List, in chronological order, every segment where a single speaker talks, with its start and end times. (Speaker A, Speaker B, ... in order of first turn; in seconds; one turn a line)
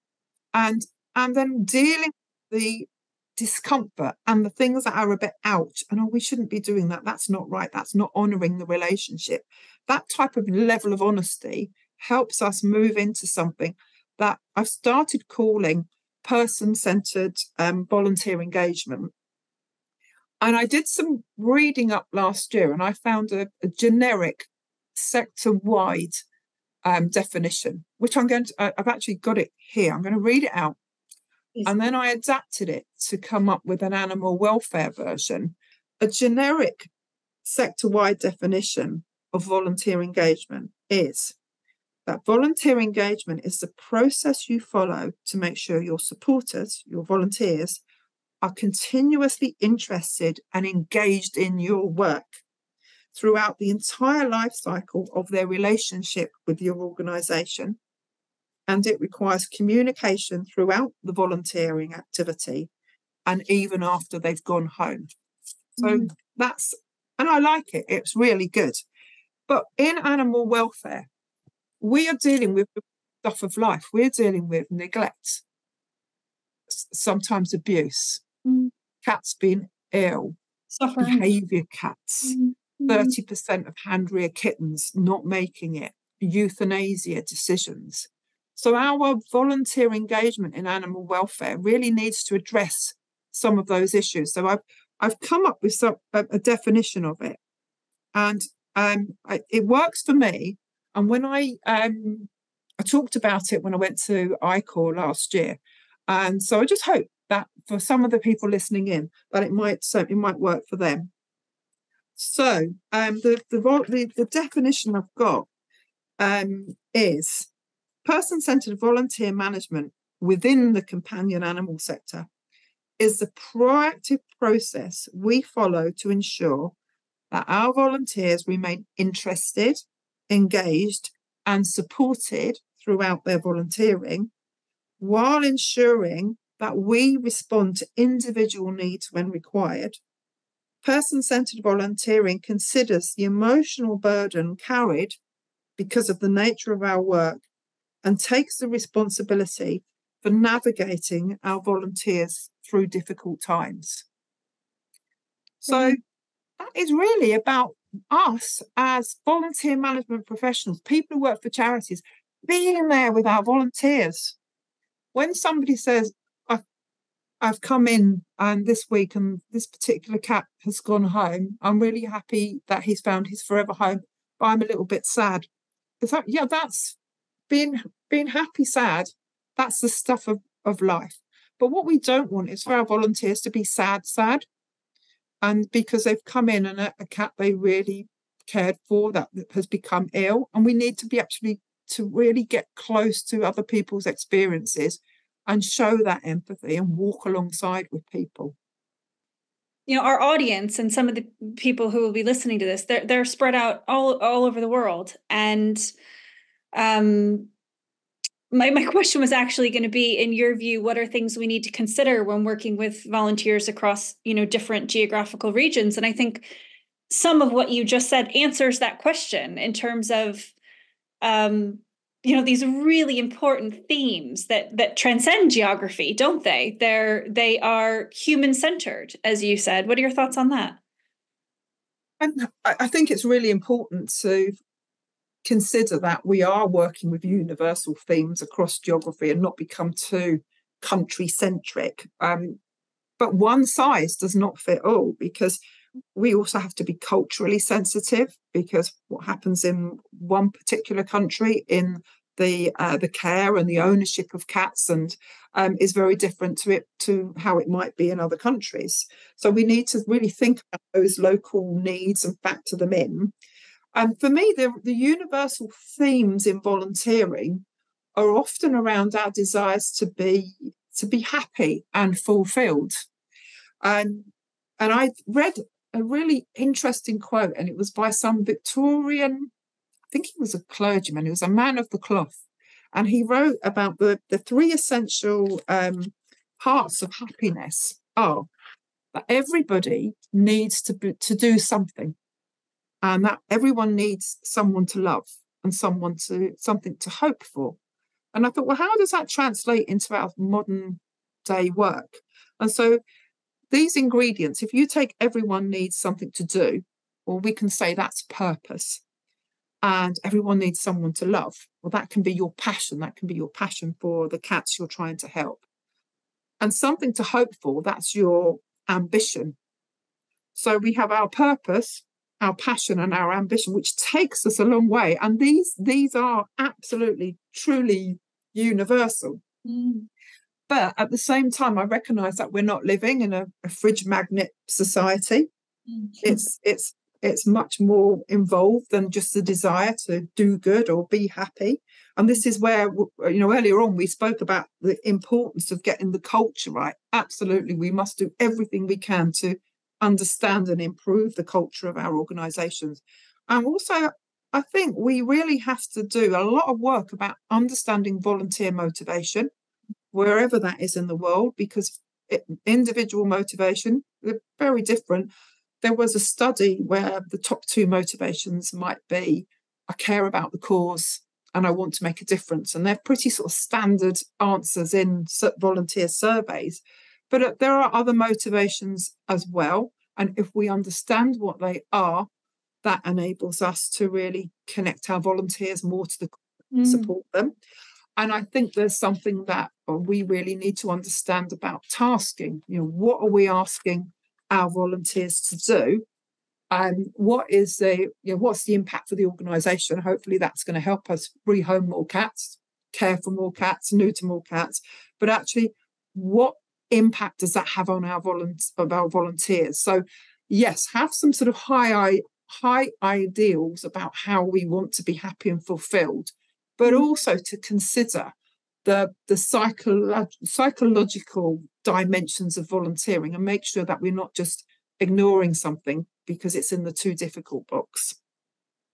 Speaker A: 0.5-19.1
Speaker A: 20.4-26.2
Speaker A: 26.9-30.8
Speaker A: 31.6-36.9
Speaker A: 37.4-41.4
Speaker A: 42.1-47.8
Speaker A: 48.4-52.4
Speaker A: 53.1-57.8
Speaker A: 58.7-62.7
Speaker A: 63.3-65.1
Speaker A: 65.8-68.8
Speaker B: 65.8-66.1
Speaker A: 69.5-71.1
Speaker A: 71.8-75.4
Speaker A: 76.7-78.2
Speaker B: 78.5-78.7
Speaker A: 79.0-80.4
Speaker B: 80.7-81.2
Speaker A: 81.0-97.4
Speaker B: 82.3-83.2
Speaker A: 98.1-111.1
Speaker A: 112.2-115.5
Speaker A: 116.2-117.5
Speaker A: 118.0-122.3
Speaker A: 123.0-126.7
Speaker A: 127.3-134.3
Speaker A: 135.0-140.0
Speaker A: 140.8-145.2
Speaker A: 145.8-147.4
Speaker A: 148.0-154.1
Speaker A: 155.6-156.0
Speaker B: 155.7-156.0
Speaker A: 156.6-164.4
Speaker A: 165.1-166.6
Speaker A: 167.4-175.5
Speaker A: 176.0-177.0
Speaker A: 177.5-184.5
Speaker A: 185.4-198.6
Speaker B: 199.9-205.9
Speaker B: 206.7-207.5
Speaker B: 208.5-216.5
Speaker B: 217.1-220.5
Speaker B: 221.2-230.8
Speaker A: 232.2-234.6
Speaker A: 235.4-242.6
Speaker A: 243.2-245.6
Speaker A: 246.2-263.3
Speaker A: 263.9-267.6
Speaker A: 268.2-273.0
Speaker A: 273.8-279.5
Speaker A: 280.1-282.4
Speaker A: 282.9-288.5
Speaker A: 289.1-292.2
Speaker A: 293.0-297.8
Speaker A: 298.3-303.0
Speaker A: 303.7-309.0
Speaker A: 309.8-315.6
Speaker A: 316.6-319.6
Speaker A: 320.6-329.4
Speaker B: 329.6-330.1
Speaker A: 330.7-335.5
Speaker B: 336.0-336.4
Speaker A: 336.2-359.5
Speaker A: 360.1-365.3
Speaker A: 365.8-382.3
Speaker A: 382.8-387.5
Speaker B: 386.7-387.1
Speaker A: 388.2-396.0
Speaker A: 396.7-418.3
Speaker A: 418.9-428.2